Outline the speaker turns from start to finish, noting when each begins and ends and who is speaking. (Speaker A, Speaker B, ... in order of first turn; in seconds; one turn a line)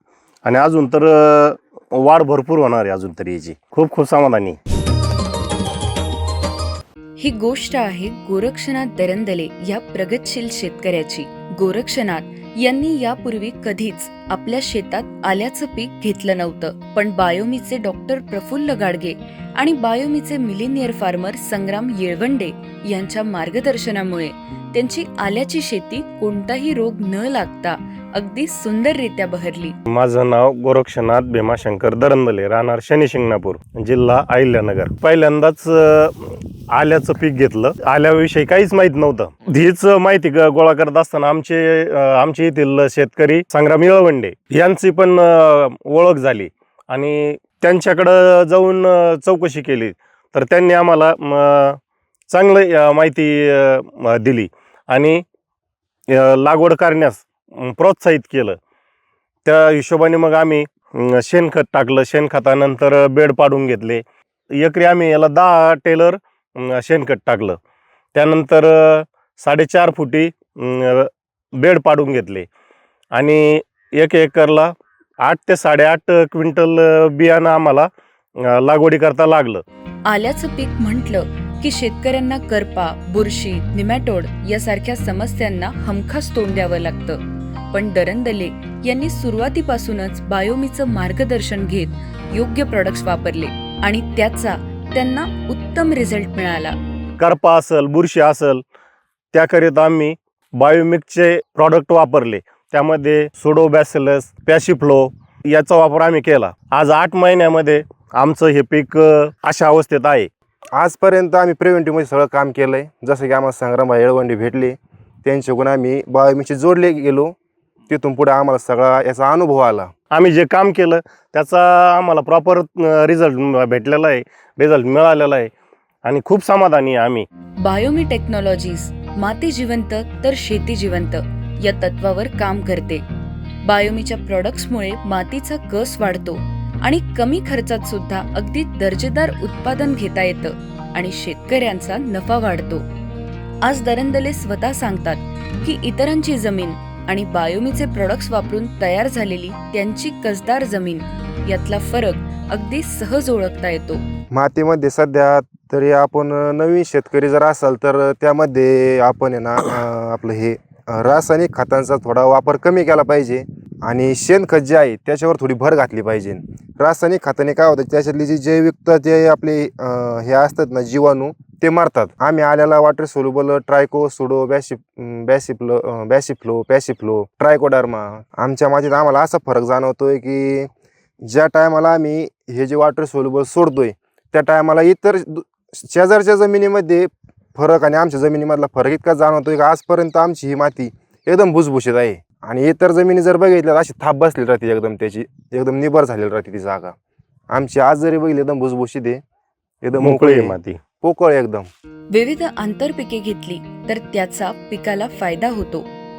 Speaker A: 0.5-4.6
Speaker B: 7.2-29.8
Speaker A: 29.9-51.8
Speaker A: 52.3-55.2
Speaker A: 56.1-58.6
Speaker A: 59.5-64.0
Speaker A: 64.6-67.6
Speaker A: 68.1-72.5
Speaker A: 73.2-77.9
Speaker A: 78.5-79.6
Speaker B: 80.1-87.2
Speaker B: 87.7-96.8
Speaker A: 97.2-98.6
Speaker A: 99.3-110.3
Speaker C: 110.8-117.3
Speaker C: 117.9-119.9
Speaker A: 120.1-125.5
Speaker A: 126.0-127.3
Speaker B: 127.6-133.0
Speaker B: 133.6-142.8
Speaker B: 143.6-154.0
Speaker C: 154.3-180.7
Speaker C: 181.2-196.9
Speaker C: 197.5-199.2
Speaker C: 199.8-201.7
Speaker A: 200.0-200.8
Speaker B: 202.1-205.9